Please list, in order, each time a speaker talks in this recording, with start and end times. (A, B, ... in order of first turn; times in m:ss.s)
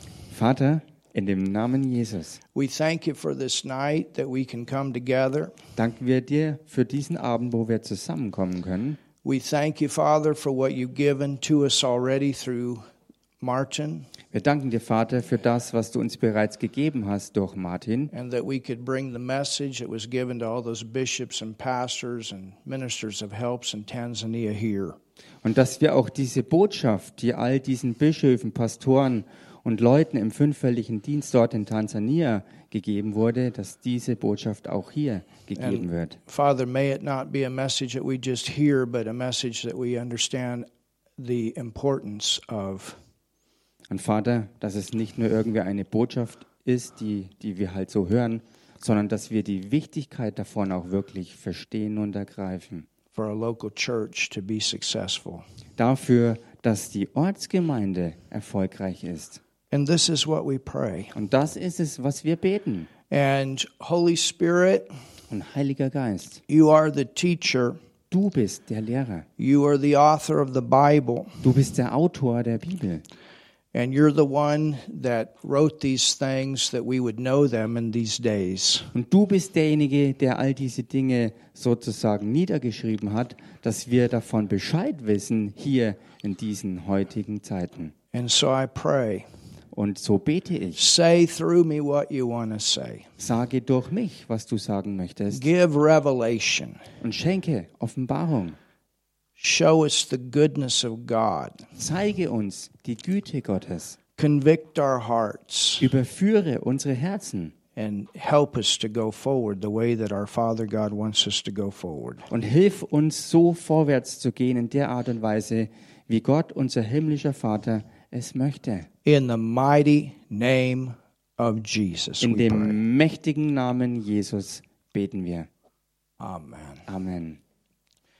0:00.3-0:02.4 A
0:02.5-0:05.5 B
0:05.8-0:09.0 A
0:09.2-0:12.8 B
0:13.4-0:14.1 B
0:14.3-0:18.1 A
0:18.1-0:25.0 B
0:25.4-0:36.2 A
0:35.6-0:40.6 B
0:41.2-0:43.0 B
0:43.9-0:52.8 A
0:53.1-0:55.4 B
0:55.8-0:59.4 A
0:59.7-1:01.1 B
1:01.1-1:02.9 A
1:03.1-1:04.9 B
1:05.3-1:06.4 A
1:06.5-1:07.8 B
1:08.1-1:09.2 A
1:09.4-1:11.4 B
1:11.4-1:13.0 A
1:13.7-1:18.9 B
1:18.9-1:27.9 A
1:28.1-1:29.2 B
1:29.7-1:30.8 A
1:30.7-1:33.1 B
1:33.2-1:35.4 A
1:35.3-1:36.8 B
1:37.0-1:38.6 A
1:39.4-1:41.6 B
1:41.8-1:44.0 A
1:44.2-1:45.9 B
1:45.8-1:47.5 A
1:47.8-1:52.2 B
1:52.3-1:58.9 A
1:59.0-2:02.8 B
2:02.2-2:05.5 A
2:06.2-2:06.9 B
2:06.9-2:07.4 A